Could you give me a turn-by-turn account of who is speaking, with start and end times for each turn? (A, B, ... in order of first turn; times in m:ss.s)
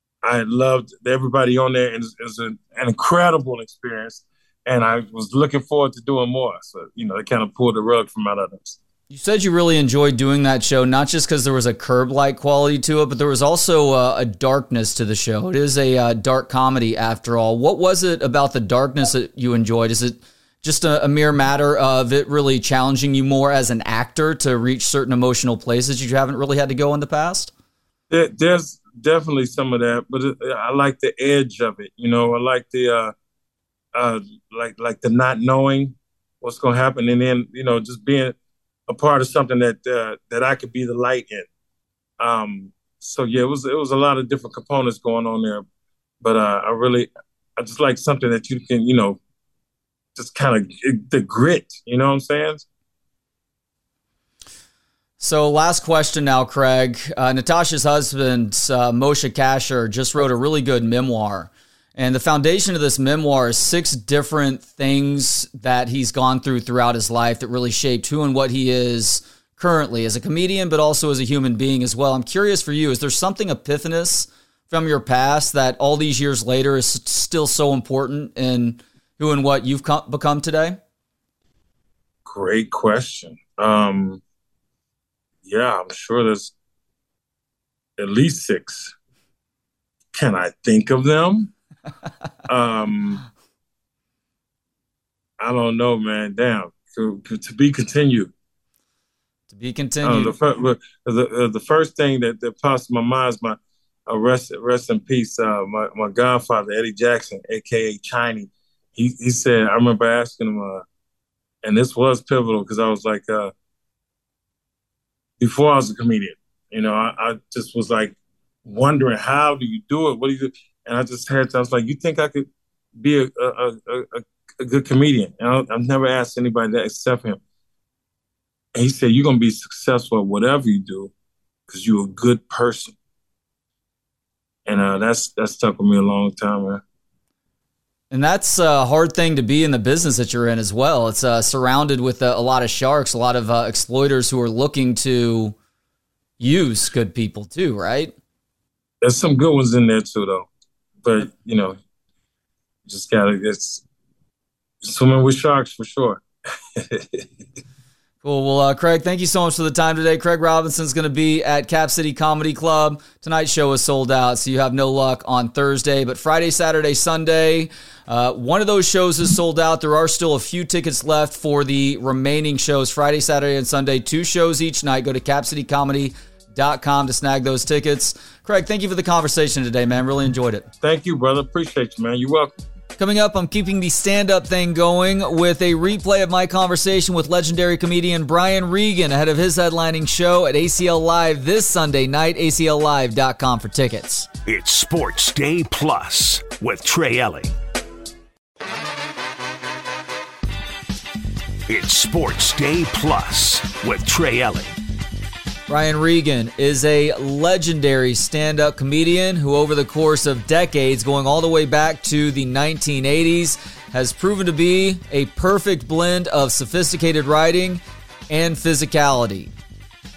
0:00.2-0:08.8 A
0:09.1-0:27.5 B
0:28.1-0:33.1 A
0:33.9-0:38.4 A
0:38.9-0:41.5 A
0:42.2-0:45.6 A
0:46.2-0:49.2 A
0:50.1-0:52.6 A
0:55.2-1:20.8 B
1:22.2-1:24.2 A
1:25.4-1:26.5 A
1:28.0-1:28.9 A
1:30.1-1:31.5 A
1:32.5-1:33.2 A
1:35.4-1:38.3 A
1:39.5-1:40.4 B
1:40.0-1:50.8 A
1:51.6-1:53.5 A
1:55.4-2:02.5 A
2:03.0-2:07.4 A
2:08.8-2:11.1 A
2:11.7-2:12.9 A
2:14.6-2:16.8 A
2:18.1-2:25.5 B
2:26.4-2:28.1 B
2:29.0-2:30.5 A
2:31.0-2:31.8 A
2:32.9-2:33.8 A
2:34.8-2:36.2 A
2:36.7-2:37.3 A
2:38.2-3:00.7 B
3:00.8-3:02.6 A
3:03.0-3:14.3 B
3:14.4-3:17.5 C
3:21.7-3:24.7 C
3:25.7-3:39.5 B